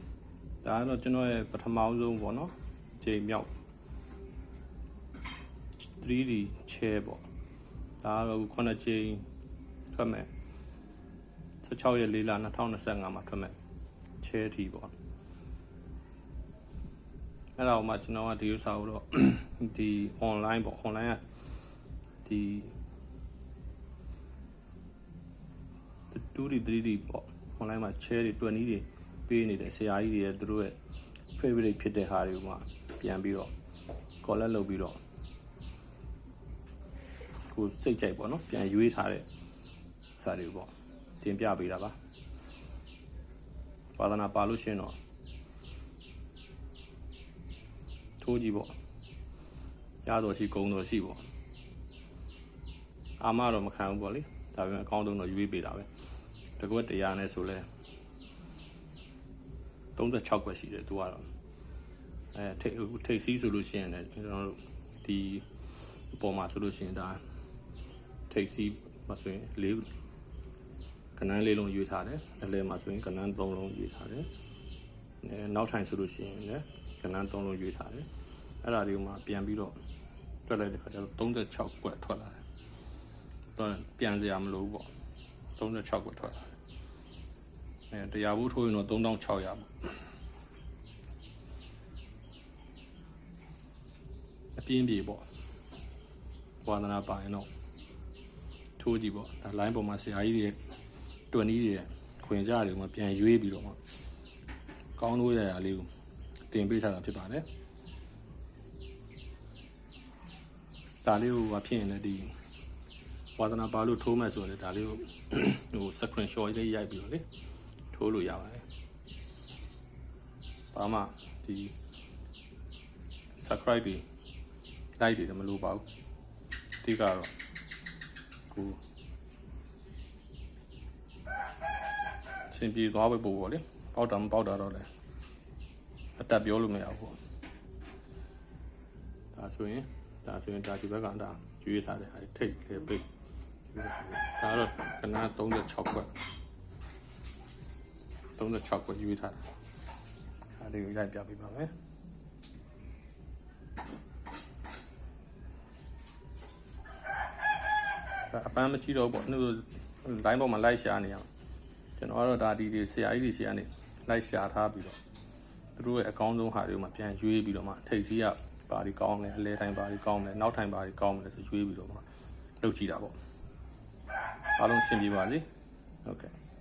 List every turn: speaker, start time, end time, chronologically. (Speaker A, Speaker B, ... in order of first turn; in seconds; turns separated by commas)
Speaker A: 0.6-3.5, Speaker A: 6.0-7.2, Speaker A: 8.0-9.2, Speaker A: 9.9-10.3, Speaker A: 11.6-13.5, Speaker A: 14.2-14.9, Speaker A: 17.6-21.2, Speaker A: 22.2-22.7, Speaker A: 26.1-30.8, Speaker A: 31.3-33.5, Speaker A: 34.2-35.0, Speaker A: 37.5-39.2, Speaker A: 40.2-41.9, Speaker A: 43.9-45.0, Speaker A: 48.2-48.7, Speaker A: 50.0-51.2, Speaker A: 53.2-55.9, Speaker A: 56.6-57.6, Speaker A: 60.0-61.2, Speaker A: 62.3-65.4, Speaker A: 66.1-67.2, Speaker A: 68.3-69.9, Speaker A: 71.2-74.3, Speaker A: 75.2-78.1, Speaker A: 78.6-79.7, Speaker A: 80.5-82.4, Speaker A: 83.5-84.9, Speaker A: 85.6-86.5, Speaker A: 87.9-89.9, Speaker A: 94.5-95.2, Speaker A: 96.6-97.5, Speaker A: 98.8-100.6, Speaker A: 101.3-103.8, Speaker A: 105.0-105.9, Speaker A: 106.5-107.5, Speaker A: 111.0-112.3, Speaker A: 113.4-117.2, Speaker A: 117.9-118.6, Speaker A: 120.7-121.7, Speaker A: 123.4-124.0, Speaker A: 125.0-125.8, Speaker A: 126.8-127.3, Speaker A: 128.5-128.8, Speaker A: 132.5-134.9, Speaker A: 136.2-137.2, Speaker A: 139.3-143.0, Speaker A: 143.7-146.1, Speaker A: 148.4-149.4, Speaker A: 150.6-151.7, Speaker A: 158.3-161.3, Speaker A: 162.0-165.0, Speaker A: 165.8-172.0, Speaker A: 172.6-173.2, Speaker A: 174.6-175.4, Speaker A: 176.0-176.3